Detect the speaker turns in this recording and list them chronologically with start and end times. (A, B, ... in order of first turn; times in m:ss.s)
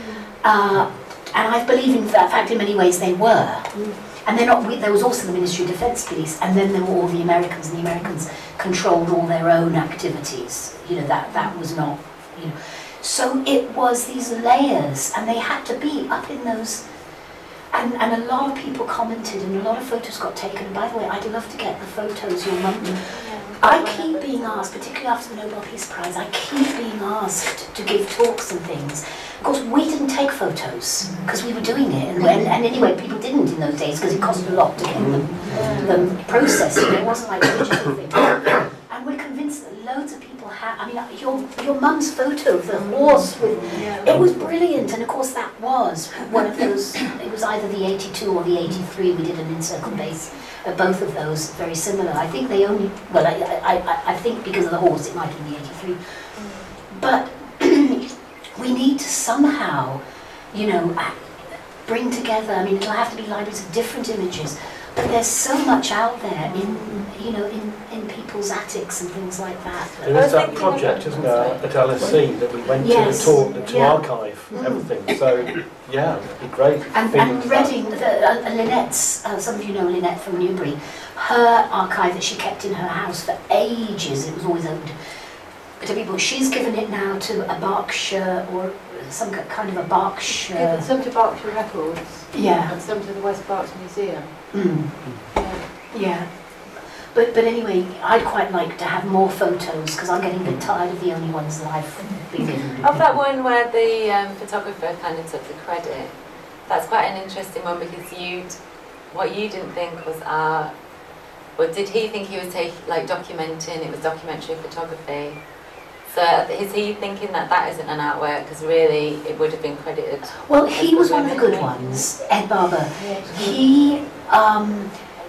0:00.4-0:16.8 A
0:17.7-0:56.0 A
0:23.1-0:24.7 B
0:35.5-0:35.9 C
0:35.5-0:35.8 B
0:42.8-0:43.2 B
0:43.7-0:44.2 B
0:43.7-0:44.2 C
0:56.4-0:56.7 B
0:56.9-1:01.2 A
1:01.8-1:10.4 A
1:10.0-1:17.7 D
1:10.1-1:11.8 B
1:12.8-1:14.9 A
1:16.9-1:25.0 A
1:25.8-1:30.9 A
1:30.3-1:34.4 C
1:32.3-1:32.8 A
1:34.5-1:35.3 A
1:35.3-1:35.7 B
1:35.9-1:36.3 A
1:37.1-1:42.9 A
1:42.8-1:48.6 B
1:49.1-1:50.7 B
1:51.6-1:55.4 B
1:56.1-2:02.1 B
2:00.4-2:04.9 A
2:03.1-2:03.6 B